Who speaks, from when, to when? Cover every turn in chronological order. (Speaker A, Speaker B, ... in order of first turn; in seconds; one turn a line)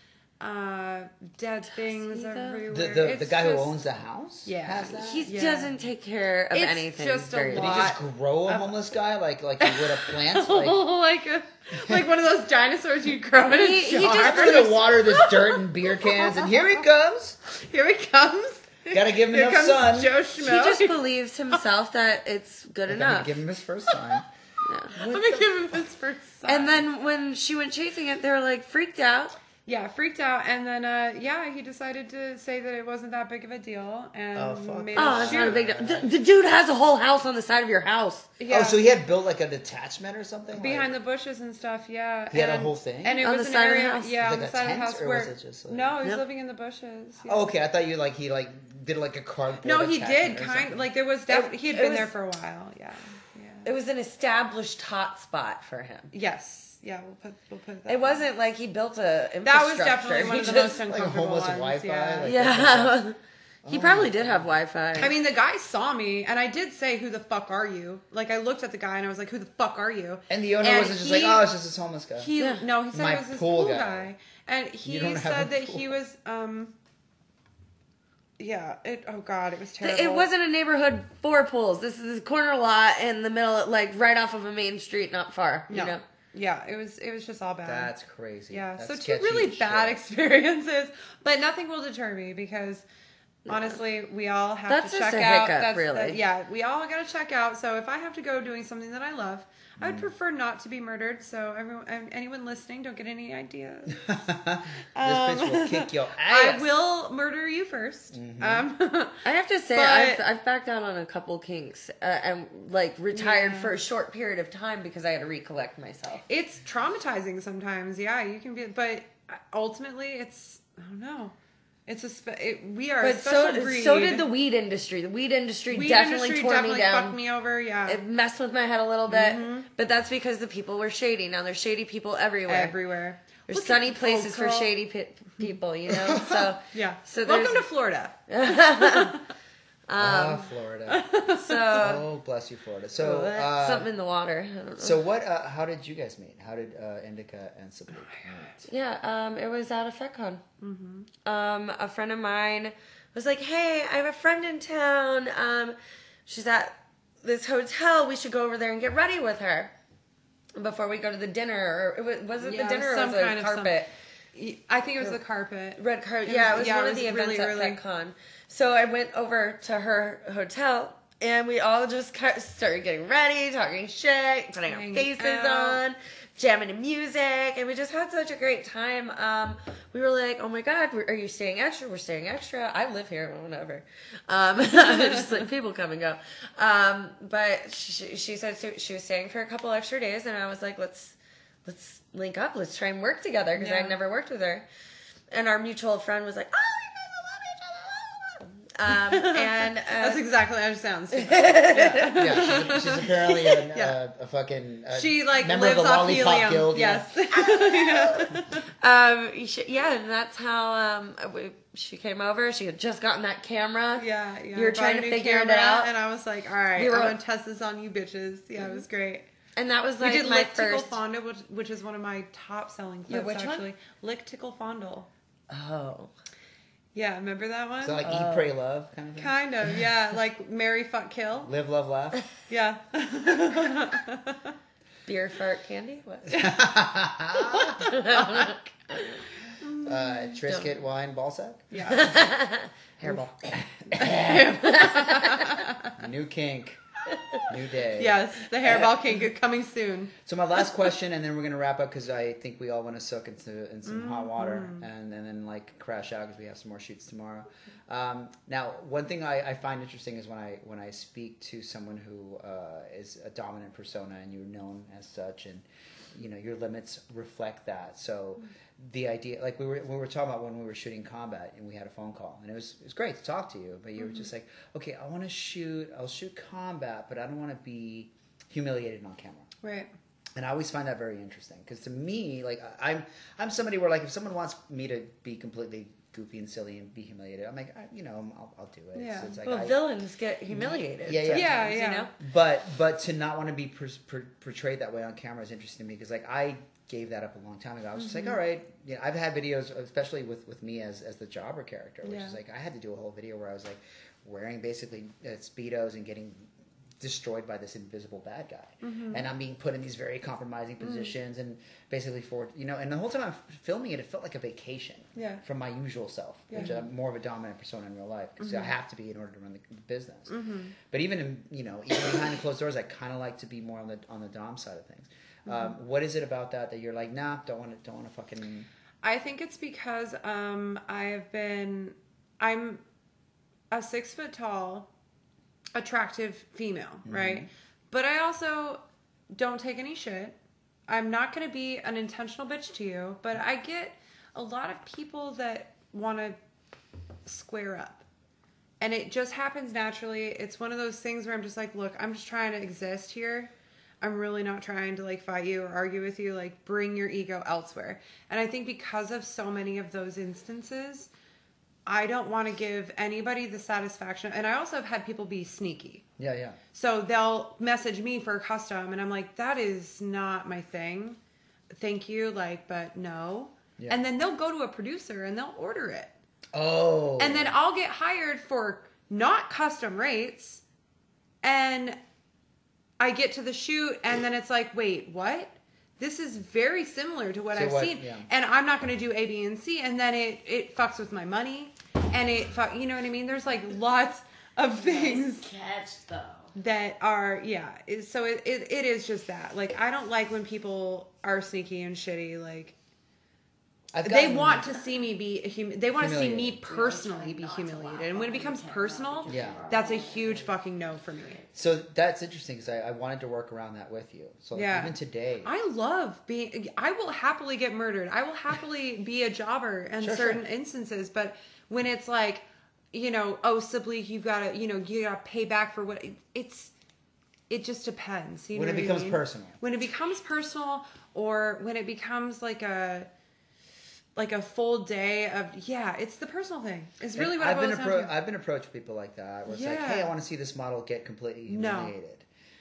Speaker A: 0.4-3.8
Speaker B: 1.9-2.6
Speaker C: 2.7-5.3
Speaker A: 4.4-5.7
Speaker B: 4.9-7.9
Speaker A: 6.5-8.8
Speaker C: 7.5-10.8
Speaker A: 9.6-16.8
Speaker B: 13.5-14.9
Speaker C: 13.9-17.4
Speaker A: 17.4-21.0
Speaker C: 18.9-20.2
Speaker B: 20.4-23.3
Speaker C: 22.9-24.2
Speaker B: 24.6-24.9
Speaker C: 24.9-25.5
Speaker A: 24.9-26.9
Speaker B: 26.4-29.3
Speaker A: 29.6-35.6
Speaker C: 34.3-36.1
Speaker B: 34.9-38.3
Speaker A: 38.4-38.8
Speaker C: 38.5-40.9
Speaker A: 40.5-47.5
Speaker C: 42.3-43.2
Speaker B: 43.2-44.1
Speaker C: 44.2-45.9
Speaker C: 47.2-50.9
Speaker A: 49.6-53.7
Speaker B: 51.3-52.1
Speaker B: 53.6-56.1
Speaker A: 56.1-58.3
Speaker B: 57.9-60.9
Speaker A: 59.4-62.3
Speaker C: 60.9-63.0
Speaker B: 62.2-65.1
Speaker C: 63.6-64.5
Speaker A: 64.9-71.5
Speaker C: 70.3-72.3
Speaker A: 72.2-76.7
Speaker B: 72.4-72.6
Speaker C: 72.9-74.1
Speaker C: 74.8-75.9
Speaker A: 78.4-80.3
Speaker B: 79.8-86.0
Speaker A: 85.7-87.9
Speaker C: 87.6-90.0
Speaker A: 88.5-92.8
Speaker A: 93.5-104.0
Speaker B: 94.7-96.2
Speaker C: 99.8-100.1
Speaker C: 103.9-106.7
Speaker A: 104.9-110.2
Speaker C: 108.1-108.7
Speaker B: 109.2-116.2
Speaker A: 113.1-113.8
Speaker A: 116.3-121.3
Speaker A: 121.9-124.3
Speaker B: 123.0-127.2
Speaker A: 125.7-128.0
Speaker B: 127.8-132.8
Speaker A: 129.1-129.7
Speaker A: 132.4-134.7
Speaker B: 133.5-137.7
Speaker C: 135.9-136.5
Speaker A: 136.7-139.2
Speaker B: 138.3-139.2
Speaker B: 139.9-140.5
Speaker C: 139.9-141.1
Speaker A: 140.9-141.9
Speaker B: 141.3-142.1
Speaker C: 141.7-143.9
Speaker B: 143.0-145.0
Speaker C: 144.8-148.7
Speaker A: 147.9-148.5
Speaker B: 148.7-150.4
Speaker A: 150.6-151.1
Speaker B: 151.2-155.8
Speaker B: 156.3-159.7
Speaker B: 160.6-163.9
Speaker A: 162.4-167.8
Speaker B: 165.8-194.6
Speaker A: 174.7-175.8
Speaker A: 193.6-194.0
Speaker B: 195.3-200.3
Speaker A: 198.9-204.0
Speaker B: 201.1-202.7
Speaker C: 202.1-207.1
Speaker A: 204.9-208.7
Speaker B: 207.4-215.9
Speaker A: 214.0-219.3
Speaker B: 216.8-217.2
Speaker B: 219.6-221.0
Speaker A: 220.0-225.1
Speaker B: 223.1-223.7
Speaker B: 225.5-226.1
Speaker A: 226.9-228.0
Speaker C: 227.8-229.3
Speaker B: 228.0-228.5
Speaker A: 229.2-231.5
Speaker C: 231.4-232.2
Speaker A: 232.5-234.5
Speaker B: 235.1-236.5
Speaker C: 236.3-237.9
Speaker A: 237.4-238.6
Speaker B: 237.8-238.6
Speaker A: 239.6-240.3
Speaker C: 239.8-241.8
Speaker B: 240.4-240.7
Speaker A: 241.7-242.1
Speaker B: 241.9-242.7
Speaker C: 243.0-244.5
Speaker A: 243.8-245.9
Speaker B: 244.0-245.6
Speaker C: 246.0-246.8
Speaker C: 247.5-248.9
Speaker A: 248.0-250.1
Speaker C: 250.2-279.5
Speaker A: 253.8-254.8
Speaker A: 274.0-274.3
Speaker A: 279.6-279.9
Speaker C: 280.4-289.8
Speaker A: 288.9-289.4
Speaker B: 289.4-292.1
Speaker C: 290.5-320.3
Speaker A: 291.3-292.1
Speaker A: 297.9-298.4
Speaker A: 302.0-302.4
Speaker A: 308.8-309.2
Speaker A: 310.8-311.1
Speaker A: 315.1-315.4
Speaker A: 316.5-316.8
Speaker A: 318.4-318.7
Speaker A: 320.3-320.7
Speaker C: 320.9-328.7
Speaker A: 329.0-332.8
Speaker A: 333.7-334.9
Speaker A: 335.7-340.4
Speaker C: 337.1-337.5
Speaker A: 340.9-346.4
Speaker A: 347.2-348.0
Speaker A: 348.8-361.1
Speaker A: 361.9-366.0
Speaker C: 366.2-366.6
Speaker A: 366.7-371.2
Speaker A: 371.7-376.1
Speaker C: 376.5-377.5
Speaker A: 377.2-380.6
Speaker A: 381.4-382.0
Speaker A: 383.0-395.5
Speaker C: 387.5-388.3
Speaker D: 394.8-396.5
Speaker A: 396.5-402.8
Speaker C: 403.9-404.8
Speaker A: 404.0-411.4
Speaker C: 405.9-406.6
Speaker D: 406.6-410.5
Speaker C: 409.3-409.6
Speaker C: 411.5-415.5
Speaker A: 414.5-426.7
Speaker C: 420.0-420.4
Speaker A: 427.5-433.1
Speaker C: 428.5-429.6
Speaker A: 434.1-438.1
Speaker C: 437.1-442.2
Speaker A: 439.5-440.1
Speaker A: 441.5-441.9